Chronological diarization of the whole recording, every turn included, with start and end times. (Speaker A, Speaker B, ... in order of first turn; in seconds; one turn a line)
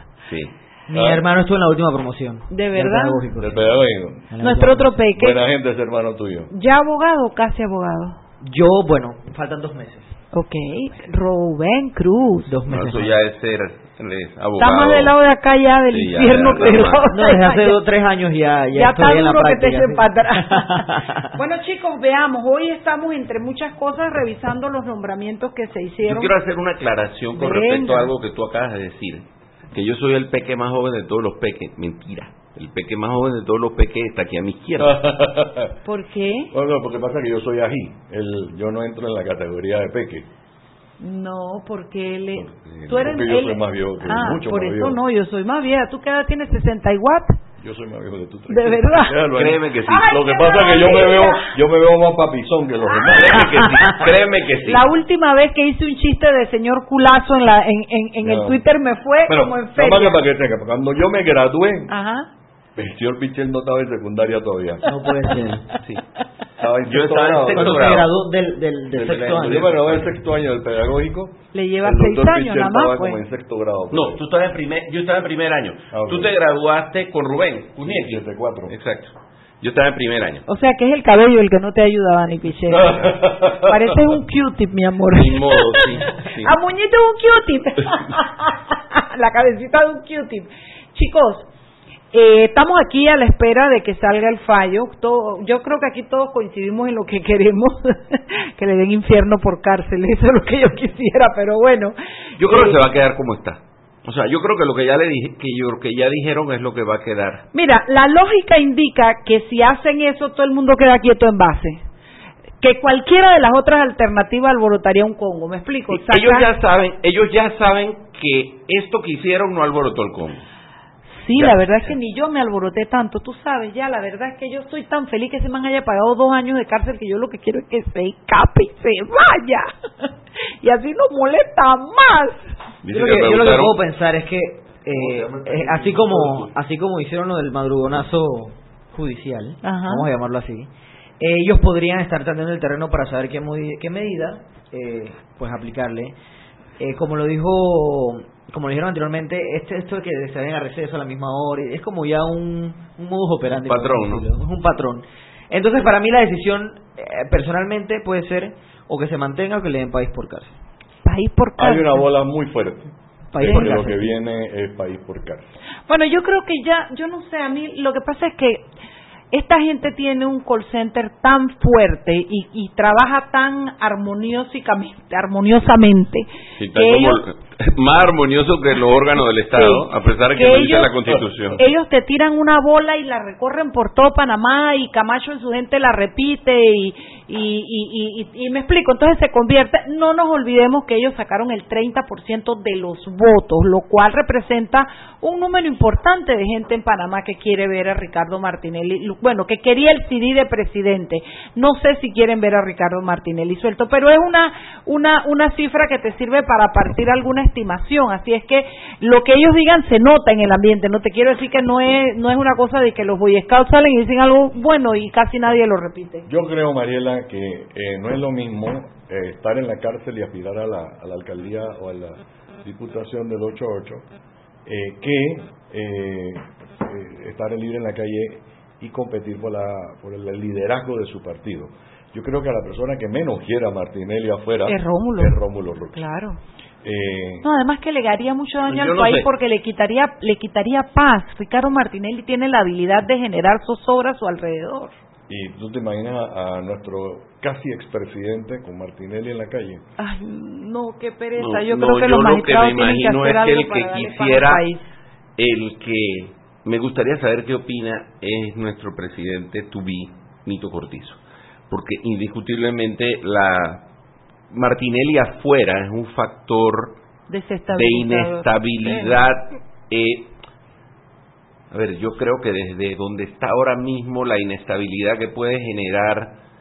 Speaker A: 0.3-0.5
Speaker B: 0.9-3.8
Speaker C: 0.9-1.2
Speaker D: 2.5-3.3
Speaker C: 3.4-4.3
Speaker B: 4.3-5.0
Speaker D: 4.4-5.4
Speaker C: 5.2-6.5
Speaker D: 6.5-8.2
Speaker B: 8.4-10.1
Speaker D: 10.3-12.6
Speaker B: 12.5-13.1
Speaker A: 12.7-15.2
Speaker D: 14.6-17.8
Speaker A: 15.9-17.0
Speaker B: 17.1-21.3
Speaker D: 18.7-26.3
Speaker A: 26.1-35.0
Speaker D: 27.4-28.1
Speaker C: 34.8-35.8
Speaker D: 35.9-36.5
Speaker C: 36.5-40.3
Speaker D: 41.0-47.4
Speaker A: 42.6-43.1
Speaker C: 42.9-45.0
Speaker C: 47.6-53.7
Speaker D: 48.5-49.2
Speaker A: 49.3-50.2
Speaker D: 49.9-51.5
Speaker A: 53.1-54.9
Speaker D: 54.6-60.2
Speaker C: 58.2-58.6
Speaker C: 59.3-61.9
Speaker D: 61.9-62.3
Speaker C: 62.8-64.8
Speaker B: 64.9-65.7
Speaker C: 66.6-68.1
Speaker A: 66.9-68.1
Speaker B: 67.5-70.0
Speaker C: 69.0-74.2
Speaker D: 71.5-73.2
Speaker A: 73.9-80.4
Speaker C: 75.9-76.3
Speaker C: 77.8-78.7
Speaker D: 80.5-91.5
Speaker C: 82.7-83.9
Speaker A: 85.1-86.6
Speaker D: 92.1-102.8
Speaker A: 102.4-107.5
Speaker D: 107.5-111.8
Speaker D: 112.6-116.5
Speaker A: 115.9-120.5
Speaker D: 121.2-129.7
Speaker A: 121.3-122.0
Speaker D: 130.6-132.4
Speaker A: 132.8-133.8
Speaker B: 132.9-146.2
Speaker A: 134.9-136.5
Speaker D: 139.6-140.1
Speaker B: 146.8-160.6
Speaker A: 153.6-154.3
Speaker D: 161.1-162.1
Speaker C: 161.6-165.5
Speaker B: 163.3-164.1
Speaker D: 163.4-163.8
Speaker D: 165.9-168.7
Speaker D: 169.3-177.2
Speaker A: 176.6-181.6
Speaker D: 179.5-181.0
Speaker D: 181.6-216.3
Speaker C: 216.3-224.1
Speaker C: 224.7-236.0
Speaker D: 234.7-235.4
Speaker D: 235.9-236.4
Speaker C: 236.8-237.5
Speaker D: 237.4-244.9
Speaker A: 238.7-239.3
Speaker C: 245.3-249.8
Speaker D: 250.0-254.8
Speaker A: 251.4-254.7
Speaker A: 255.4-261.2
Speaker A: 261.7-263.8
Speaker A: 264.5-267.0
Speaker D: 267.3-269.2
Speaker A: 267.7-270.3
Speaker A: 271.7-276.4